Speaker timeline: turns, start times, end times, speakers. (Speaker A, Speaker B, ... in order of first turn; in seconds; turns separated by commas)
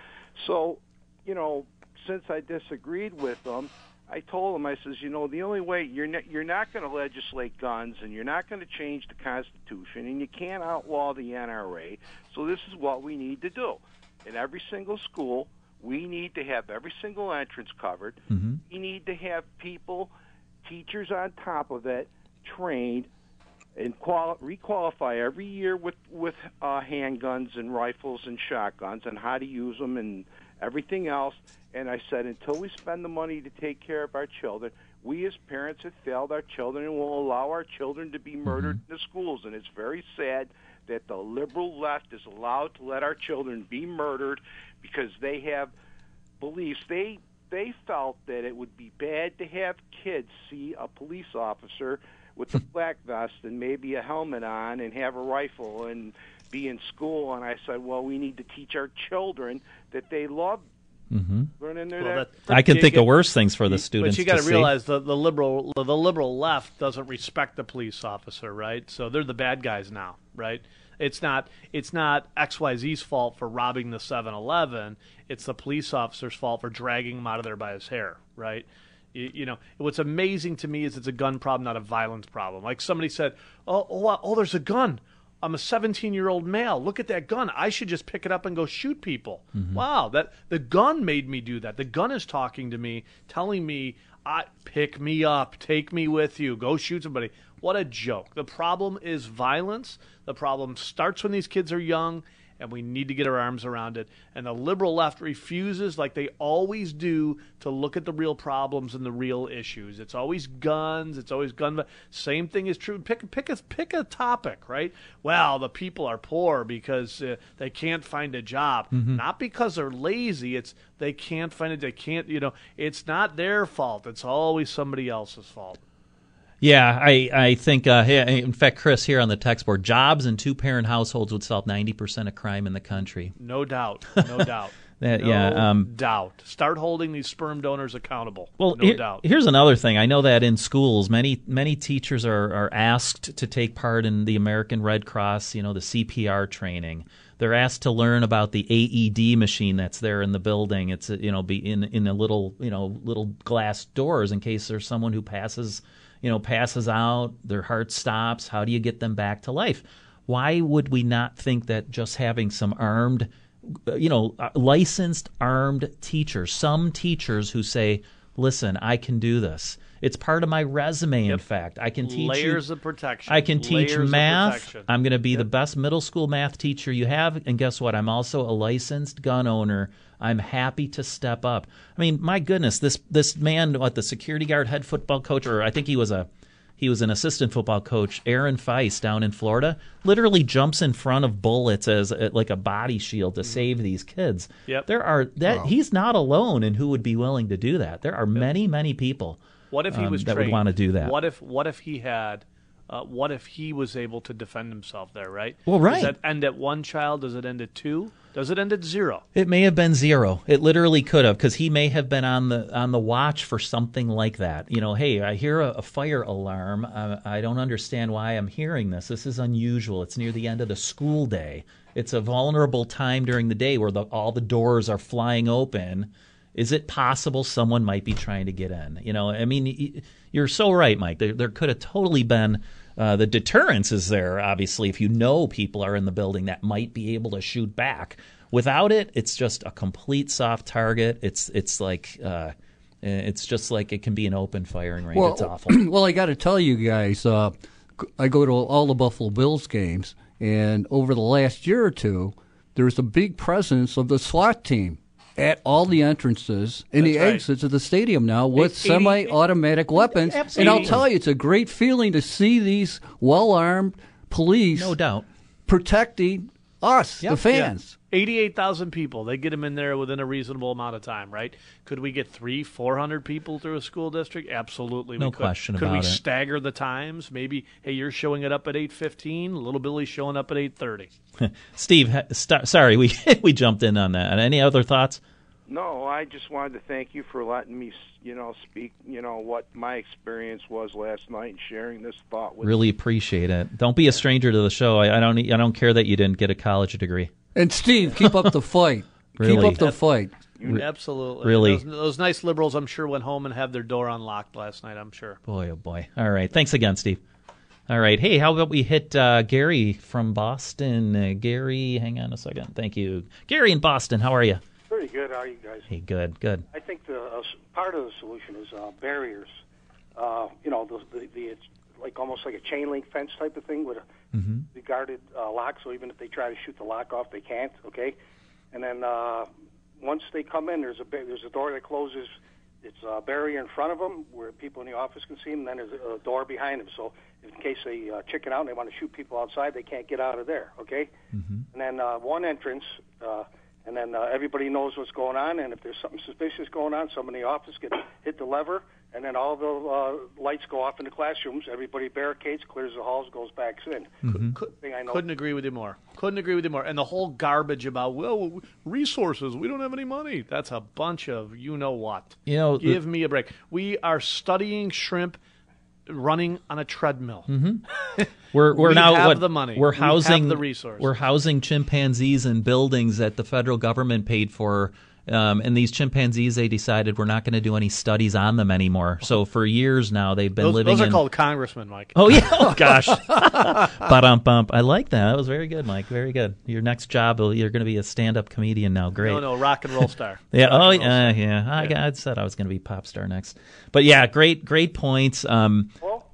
Speaker A: 0.4-20.1, Speaker B: 18.3-18.6, Speaker A: 20.6-23.1, Speaker A: 23.8-45.7, Speaker B: 38.5-38.8, Speaker A: 46.4-60.6, Speaker B: 61.1-61.5, Speaker A: 61.6-62.4, Speaker C: 62.0-63.1, Speaker B: 62.5-64.7, Speaker C: 63.7-125.8, Speaker B: 89.5-89.8, Speaker B: 118.9-119.2, Speaker B: 126.6-133.3, Speaker C: 133.4-139.2, Speaker B: 135.0-135.9, Speaker B: 138.6-172.6, Speaker C: 172.0-175.4, Speaker B: 173.3-201.2, Speaker C: 199.7-209.2, Speaker B: 205.7-206.1, Speaker B: 209.3-245.8, Speaker D: 245.2-265.0, Speaker C: 257.0-257.4, Speaker C: 258.6-259.4, Speaker B: 260.0-261.0, Speaker C: 260.6-261.0, Speaker B: 264.8-265.3, Speaker D: 265.7-267.9, Speaker C: 267.5-281.1, Speaker B: 275.2-276.2, Speaker B: 281.4-285.2, Speaker A: 285.7-292.9, Speaker B: 292.6-297.3, Speaker D: 297.6-300.3, Speaker B: 298.2-298.5, Speaker B: 299.4-299.9, Speaker C: 300.6-305.4, Speaker B: 301.4-301.8, Speaker B: 305.5-307.2, Speaker B: 307.9-314.6, Speaker E: 314.9-315.9, Speaker B: 315.9-316.6, Speaker E: 316.7-319.6, Speaker E: 320.2-324.1, Speaker B: 324.3-324.7, Speaker E: 324.7-328.2, Speaker E: 328.7-329.5, Speaker E: 330.0-341.1, Speaker B: 341.4-341.6, Speaker E: 341.7-355.2, Speaker B: 354.2-354.6, Speaker C: 354.3-365.4, Speaker B: 362.5-363.0, Speaker C: 366.1-367.5, Speaker B: 367.5-367.8, Speaker C: 368.2-371.1, Speaker B: 368.5-381.2, Speaker C: 380.6-383.8, Speaker B: 382.1-389.5, Speaker C: 389.2-391.9, Speaker B: 390.5-395.9